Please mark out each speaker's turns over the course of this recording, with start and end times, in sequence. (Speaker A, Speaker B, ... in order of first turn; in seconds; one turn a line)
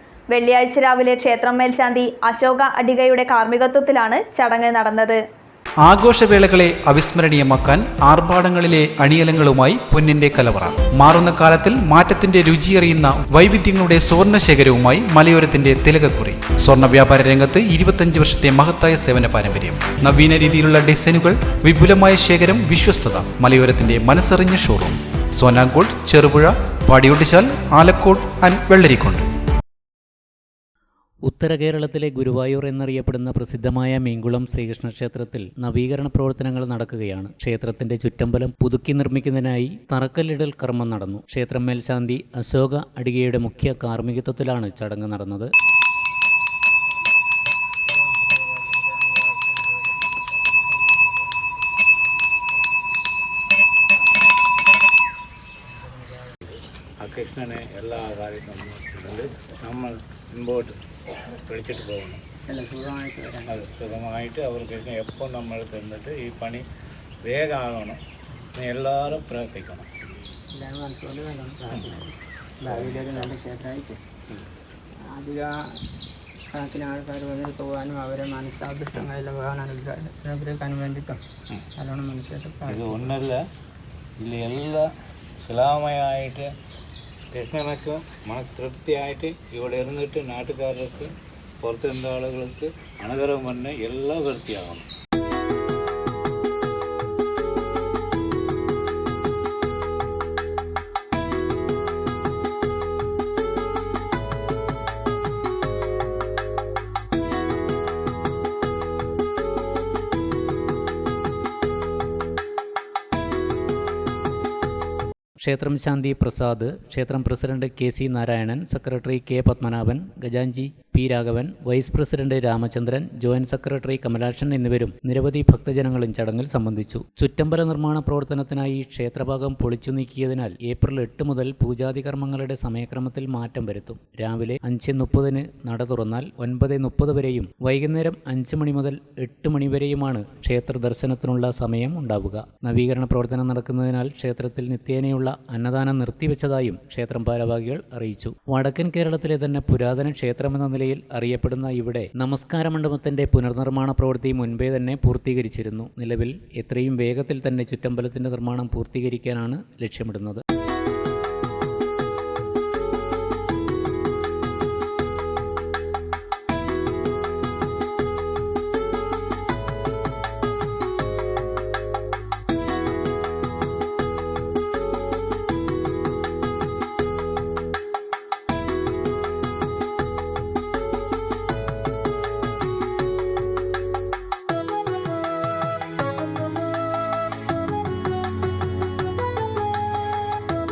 Speaker A: 0.3-5.2
Speaker B: 5.9-29.2
Speaker C: 31.3-45.5
Speaker D: 48.0-49.8
Speaker D: 55.7-56.3
Speaker E: 56.5-60.8
Speaker E: 61.3-62.2
Speaker D: 62.5-63.6
Speaker E: 63.5-66.7
Speaker E: 67.2-68.0
Speaker E: 68.6-69.9
Speaker D: 70.5-74.0
Speaker E: 71.7-72.1
Speaker E: 72.7-73.4
Speaker D: 75.0-75.5
Speaker D: 76.5-81.2
Speaker D: 81.8-83.1
Speaker E: 82.7-83.4
Speaker E: 84.2-84.9
Speaker E: 85.4-86.5
Speaker E: 87.3-94.9
Speaker C: 115.4-160.4